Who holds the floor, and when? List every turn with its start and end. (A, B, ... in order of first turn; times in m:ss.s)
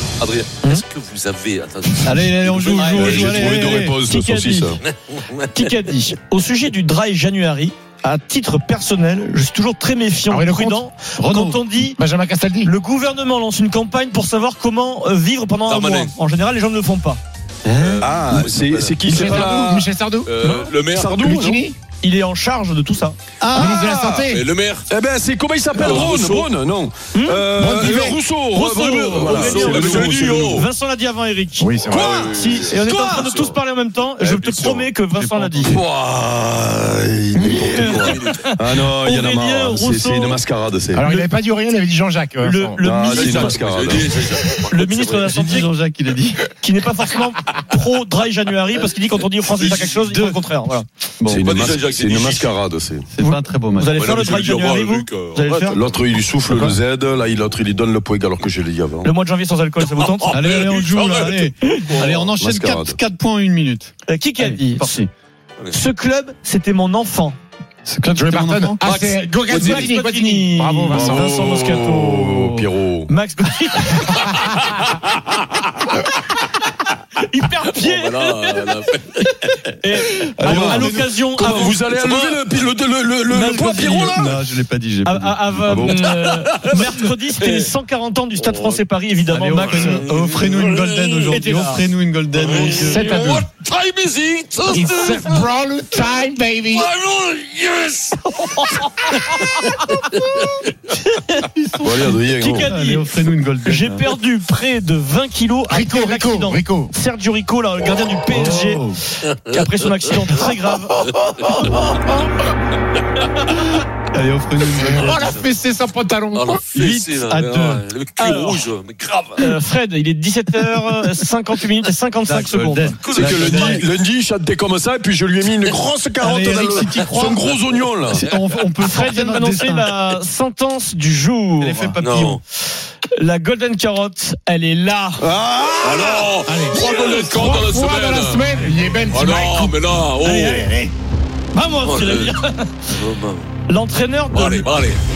0:00.2-0:03.5 A
0:02.0-0:04.0 B
0:02.9-0:04.8 C
0:03.4-0:04.8 D
0:04.8-0:05.5 A
0:05.5-0:12.0 D
0:10.3-0:10.8 E
0:11.2-0:11.6 B
0:12.0-0:12.7 E
0:12.6-0:17.2 D
0:15.7-0:16.1 A
0:17.7-0:19.5 A
0:18.0-0:19.9 C
0:19.0-0:20.3 E
0:20.2-0:21.2 A
0:20.4-0:21.7 C
0:21.2-0:21.8 E
0:22.0-0:23.2 D
0:23.4-0:23.8 B
0:23.5-0:24.4 E
0:23.5-0:30.7 C
0:24.3-0:24.9 A
0:25.8-0:26.5 A
0:25.8-0:26.1 D
0:27.1-0:27.4 D
0:27.6-0:28.2 E
0:28.5-0:35.8 D
0:29.1-0:30.7 A
0:31.6-0:32.7 E
0:31.9-0:33.6 A
0:32.6-0:33.2 C
0:34.2-0:34.9 A
0:35.1-0:35.8 B
0:35.7-0:36.0 A
0:35.7-0:41.0 C
0:37.4-0:40.4 D
0:37.5-0:38.5 A
0:40.9-0:42.8 E
0:41.0-0:41.4 D
0:42.4-0:43.6 D
0:42.8-0:44.1 C
0:43.1-0:45.3 A
0:44.7-0:45.7 D
0:45.2-0:46.5 B
0:46.6-0:50.9 D
0:49.6-0:50.0 A
0:50.1-0:50.4 B
0:51.2-0:51.5 B
0:51.3-0:52.6 A
0:51.3-0:53.1 C
0:53.1-0:54.0 B
0:53.2-0:55.8 D
0:53.9-0:56.0 A
0:55.7-0:59.1 C
0:59.0-1:00.4 D
0:59.8-1:02.4 A
1:00.3-1:05.1 B
1:02.4-1:03.0 C
1:04.1-1:05.1 D
1:05.7-1:07.4 D
1:07.9-1:08.8 B
1:08.2-1:11.2 E
1:08.8-1:10.0 A
1:09.6-1:14.5 D
1:10.9-1:13.1 C
1:17.2-1:18.6 D
1:17.7-1:19.6 A
1:19.7-1:21.8 D
1:20.4-1:21.2 B
1:20.4-1:24.4 C
1:21.7-1:22.5 A
1:23.3-1:24.2 D
1:23.3-1:25.6 B
1:25.0-1:30.1 D
1:25.7-1:26.0 C
1:25.9-1:27.7 A
1:28.4-1:28.8 A
1:29.3-1:33.1 B
1:29.7-1:31.5 A
1:31.3-1:31.8 D
1:32.3-1:36.1 A
1:32.7-1:33.5 E
1:34.7-1:36.9 E
1:36.7-1:38.2 A
1:38.3-1:39.1 D
1:39.1-1:40.5 A
1:40.9-1:41.5 D
1:41.6-1:44.0 B
1:41.8-1:42.7 C
1:42.3-1:51.0 D
1:45.7-1:46.9 E
1:48.3-1:49.0 B
1:49.5-1:50.2 A
1:51.0-1:52.0 A
1:53.8-1:55.4 B
1:54.8-1:56.6 E
1:56.3-1:59.5 A
1:56.8-1:57.8 B
1:58.2-1:58.7 D
1:59.4-2:03.8 D
2:02.3-2:03.9 B
2:03.0-2:03.8 A
2:03.2-2:08.2 C
2:06.2-2:07.6 B
2:08.1-2:09.9 B
2:08.8-2:12.0 D
2:11.6-2:12.4 B
2:12.0-2:12.4 A
2:13.2-2:15.2 D
2:15.2-2:16.2 C
2:15.8-2:20.7 A
2:16.4-2:20.9 E
2:21.5-2:22.8 D
2:21.8-2:22.4 A
2:22.9-2:23.5 A
2:23.7-2:24.7 D
2:24.3-2:25.0 A